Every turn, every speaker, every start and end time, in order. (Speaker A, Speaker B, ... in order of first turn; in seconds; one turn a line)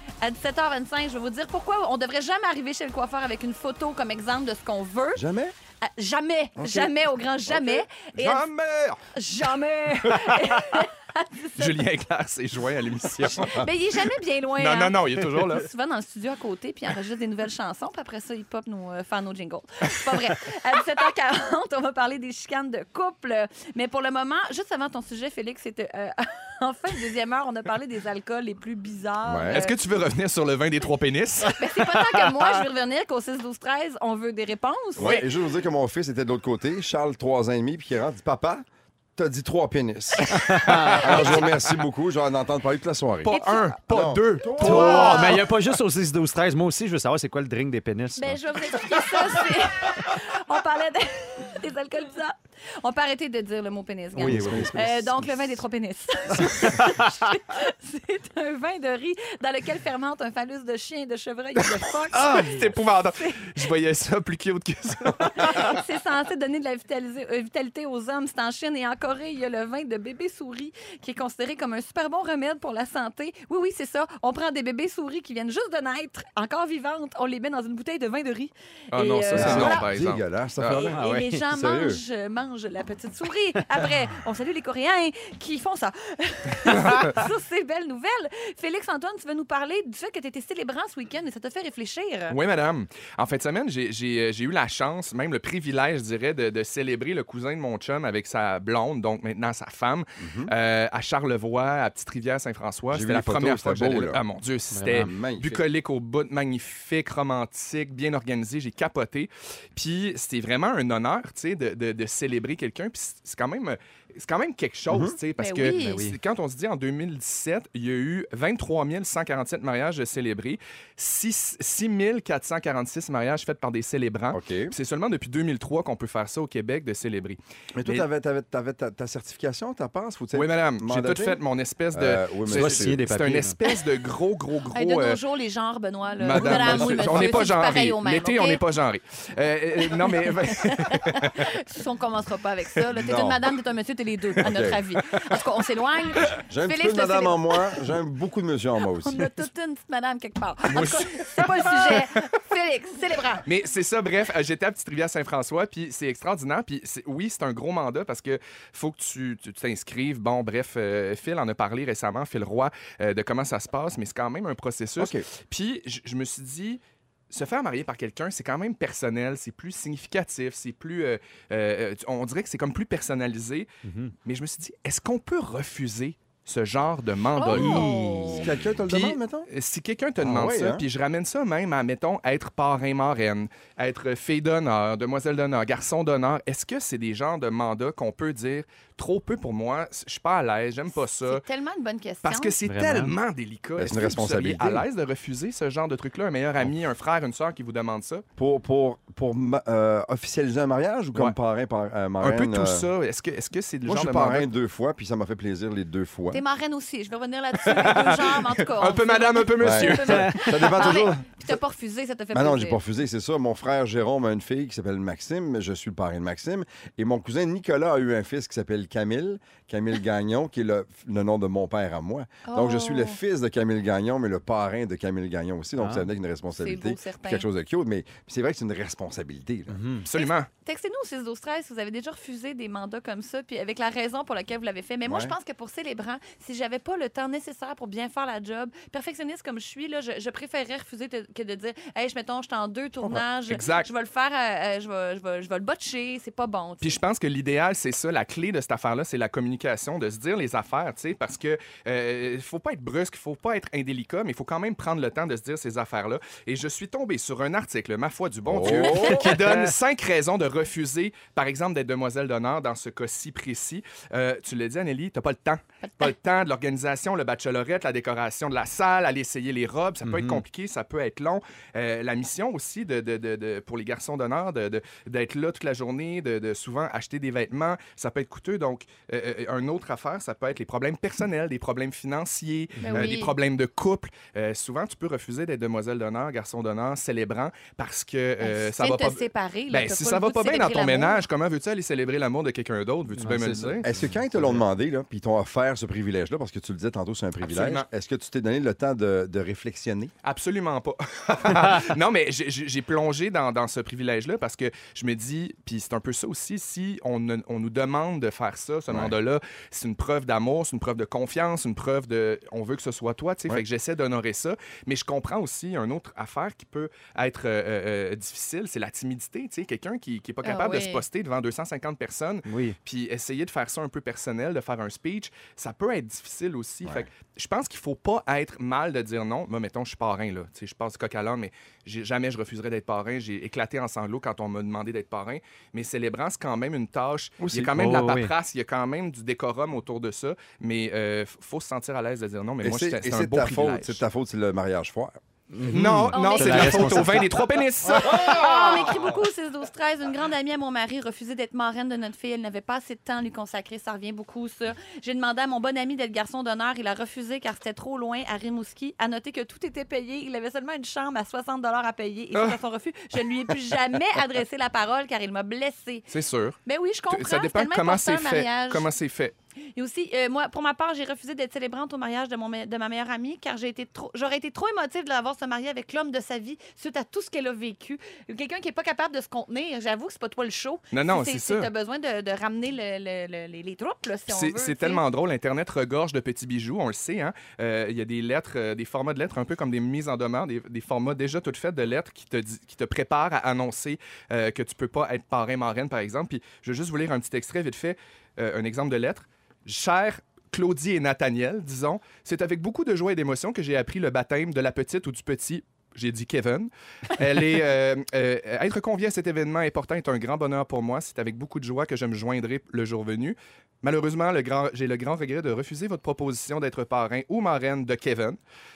Speaker A: 0.2-5.2
Speaker B: 5.2-5.5
Speaker A: 5.8-8.5
Speaker B: 6.6-6.9
Speaker C: 8.2-9.0
Speaker A: 9.2-11.8
Speaker C: 10.1-10.8
Speaker C: 11.6-13.7
Speaker B: 13.3-13.7
Speaker A: 13.4-29.8
Speaker C: 14.6-15.7
Speaker B: 29.2-29.6
Speaker C: 29.5-31.8
Speaker A: 31.4-35.2
Speaker B: 35.0-38.7
Speaker B: 39.2-43.3
Speaker D: 40.4-41.0
Speaker C: 40.7-41.6
Speaker C: 43.2-45.4
Speaker A: 43.3-43.8
Speaker B: 43.9-45.4
Speaker D: 44.6-48.4
Speaker A: 44.6-45.4
Speaker A: 48.2-63.5
Speaker D: 54.1-54.8
Speaker B: 54.2-55.6
Speaker D: 56.4-57.1
Speaker C: 62.1-65.8
Speaker A: 65.4-79.9
Speaker C: 78.9-80.9
Speaker B: 79.3-81.0
Speaker A: 80.7-92.4
Speaker D: 80.9-81.4
Speaker B: 81.5-82.0
Speaker C: 86.6-87.2
Speaker C: 92.3-128.1
Speaker B: 100.2-100.5
Speaker B: 102.9-104.2
Speaker D: 104.7-105.1
Speaker B: 104.9-105.6
Speaker B: 114.9-115.2
Speaker A: 115.4-116.0
Speaker D: 115.6-116.2
Speaker B: 124.3-124.7
Speaker B: 127.7-131.4
Speaker C: 130.3-135.2
Speaker B: 131.9-133.0
Speaker D: 132.5-133.6
Speaker A: 134.7-138.6
Speaker C: 136.2-141.5
Speaker B: 136.3-137.5
Speaker A: 139.8-147.8
Speaker B: 142.9-143.4
Speaker B: 144.4-144.8
Speaker B: 146.4-149.3
Speaker A: 148.9-153.4
Speaker C: 150.7-152.2
Speaker C: 153.4-166.8
Speaker B: 165.0-165.3
Speaker C: 167.3-173.7
Speaker D: 173.8-174.2
Speaker C: 174.2-177.9
Speaker A: 177.4-178.5
Speaker D: 177.5-178.5
Speaker B: 177.5-179.5
Speaker C: 178.9-191.4
Speaker B: 180.2-180.8
Speaker A: 191.2-192.6
Speaker C: 192.2-198.2
Speaker D: 192.7-193.2
Speaker B: 193.8-194.9
Speaker B: 198.4-202.9
Speaker C: 202.2-204.5
Speaker B: 203.9-206.4
Speaker A: 206.3-212.8
Speaker C: 207.6-210.6
Speaker B: 209.6-211.6
Speaker D: 210.1-210.5
Speaker B: 212.3-229.8
Speaker A: 222.5-223.2
Speaker D: 225.8-226.1
Speaker A: 226.6-227.5
Speaker D: 229.7-230.1
Speaker C: 230.1-230.5
Speaker A: 230.2-247.0
Speaker B: 235.1-235.4
Speaker C: 243.5-243.9
Speaker C: 246.8-293.9
Speaker B: 258.5-259.4
Speaker D: 259.0-259.7
Speaker A: 265.8-266.1
Speaker D: 270.0-270.4
Speaker D: 282.8-283.1
Speaker A: 282.9-283.4
Speaker A: 288.4-291.2
Speaker D: 293.2-294.6
Speaker B: 293.8-300.1
Speaker C: 297.4-297.9
Speaker C: 300.2-344.0
Speaker B: 308.9-309.1
Speaker A: 320.4-321.0
Speaker D: 322.5-322.8
Speaker B: 337.4-337.8
Speaker D: 337.7-338.3
Speaker B: 342.6-345.2
Speaker D: 345.5-347.4
Speaker C: 345.7-348.9
Speaker A: 346.1-347.3
Speaker A: 347.9-366.1
Speaker B: 347.9-349.1
Speaker C: 362.3-362.6
Speaker C: 366.1-366.6
Speaker A: 366.7-368.9
Speaker C: 367.1-369.3
Speaker A: 369.8-385.0
Speaker C: 380.9-381.7
Speaker C: 384.3-418.4